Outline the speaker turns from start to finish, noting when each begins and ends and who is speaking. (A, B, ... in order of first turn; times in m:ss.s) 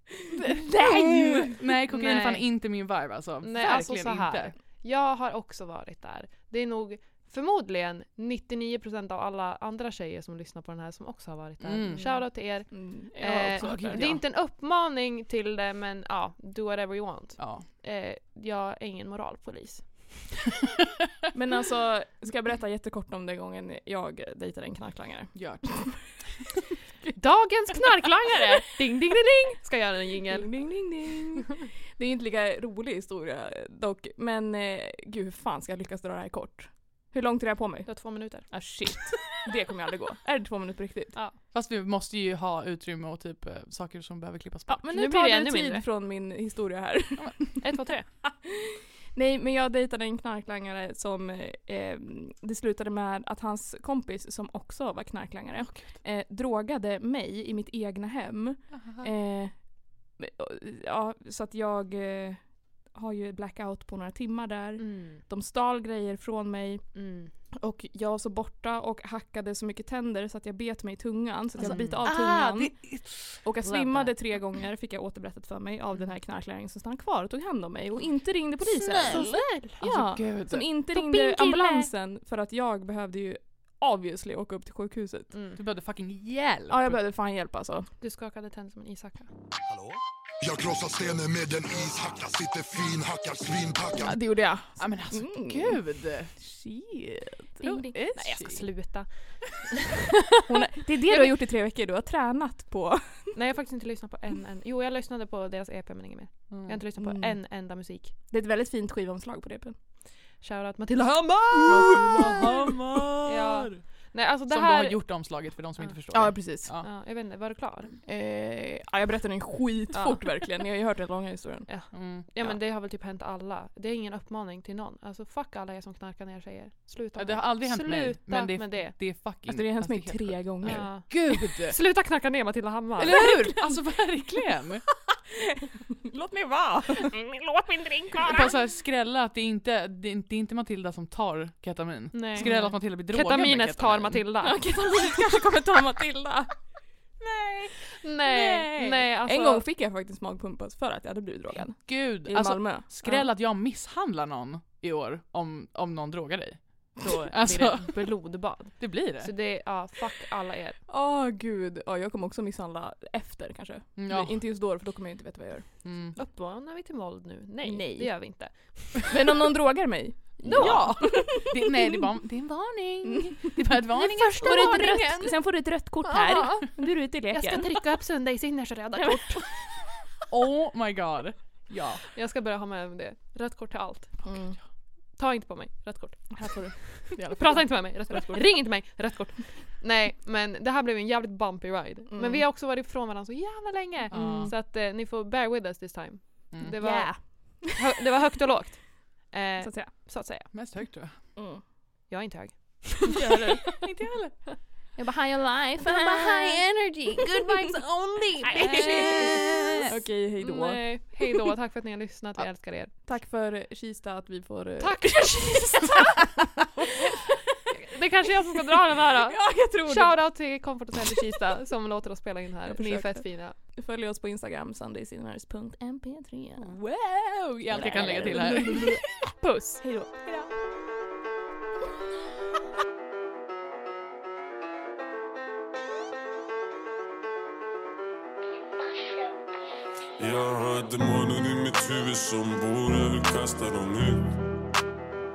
0:00.4-0:04.5 A
0:00.6-0:01.6 B
0:01.9-0:02.4 C
0:03.4-0:20.1 C
0:11.6-0:12.0 A
0:12.0-0:14.0 B
0:13.5-0:14.2 A
0:17.4-0:17.7 A
0:21.3-0:26.0 B
0:25.3-0:26.2 A
0:27.2-0:30.8 C
0:30.3-0:41.2 B
0:37.9-0:38.5 C
0:41.5-0:44.8 A
0:44.7-0:47.6 B
0:44.8-0:45.8 C
0:47.6-0:48.1 C
0:48.2-1:07.0 B
0:58.7-0:59.1 A
1:04.8-1:05.2 C
1:07.0-1:07.3 C
1:07.5-1:25.3 B
1:11.6-1:12.0 C
1:11.6-1:14.1 A
1:18.6-1:20.7 A
1:19.1-1:19.8 C
1:21.0-1:21.9 C
1:25.3-1:25.6 C
1:25.6-1:27.0 A
1:26.7-1:27.9 B
1:28.0-1:29.3 C
1:30.4-1:34.2 D
1:34.0-1:35.8 B
1:34.8-1:36.3 A
1:36.4-1:38.0 B
1:37.6-1:38.7 A
1:38.2-1:39.8 C
1:40.5-1:43.3 B
1:43.3-1:48.2 C
1:46.5-1:46.8 A
1:47.0-1:47.4 B
1:48.3-1:49.8 B
1:50.4-1:56.3 C
1:51.6-1:53.8 A
1:54.5-1:56.9 A
1:56.1-1:56.7 B
1:56.8-1:58.0 C
1:58.1-2:01.7 B
1:59.9-2:00.2 C
2:01.7-2:09.0 C
2:01.9-2:02.3 A
2:07.2-2:11.8 A
2:09.5-2:10.9 B
2:10.6-2:13.2 C
2:13.0-2:14.8 A
2:13.2-2:13.8 B
2:15.3-2:17.2 B
2:17.0-2:18.5 C
2:18.2-2:24.2 A
2:22.1-2:24.6 C
2:22.4-2:22.7 B
2:24.4-2:26.5 B
2:27.2-2:29.1 A
2:28.0-2:29.6 C
2:29.2-2:32.9 B
2:31.6-2:38.0 A
2:37.0-2:40.8 C
2:38.8-2:39.3 A
2:40.9-2:45.7 B
2:44.0-2:44.4 A
2:45.8-2:46.2 A
2:46.2-2:49.1 C
2:47.6-2:48.1 B
2:49.1-2:51.5 B
2:50.4-2:51.0 C
2:50.4-2:55.1 A
2:53.1-2:57.8 B
2:54.4-2:55.3 C
2:56.1-2:56.7 C
2:57.3-2:59.5 C
2:59.0-2:59.4 B
3:00.3-3:02.0 A
3:02.1-3:04.3 C
3:04.2-3:04.6 B
3:05.2-3:20.5 C
3:06.3-3:08.5 B
3:12.1-3:12.4 B
3:14.1-3:14.5 B
3:14.1-3:14.5 A
3:16.8-3:17.7 B
3:19.6-3:19.9 B
3:20.5-3:21.2 A
3:21.4-3:21.6 B
3:22.1-3:23.2 C
3:23.1-3:23.7 B
3:23.8-3:24.4 A
3:25.0-3:26.6 B
3:25.9-3:26.6 A
3:26.0-3:27.8 C
3:27.2-3:27.8 B
3:28.4-3:29.9 A
3:28.4-3:31.4 B
3:28.4-3:29.8 C
3:30.4-3:32.9 C
3:33.0-3:35.6 B
3:34.8-3:36.3 C
3:37.8-3:43.6 C
3:38.9-3:40.2 B
3:42.7-3:46.8 B
3:46.6-3:49.0 A
3:47.7-3:50.2 B
4:00.2-4:04.4 E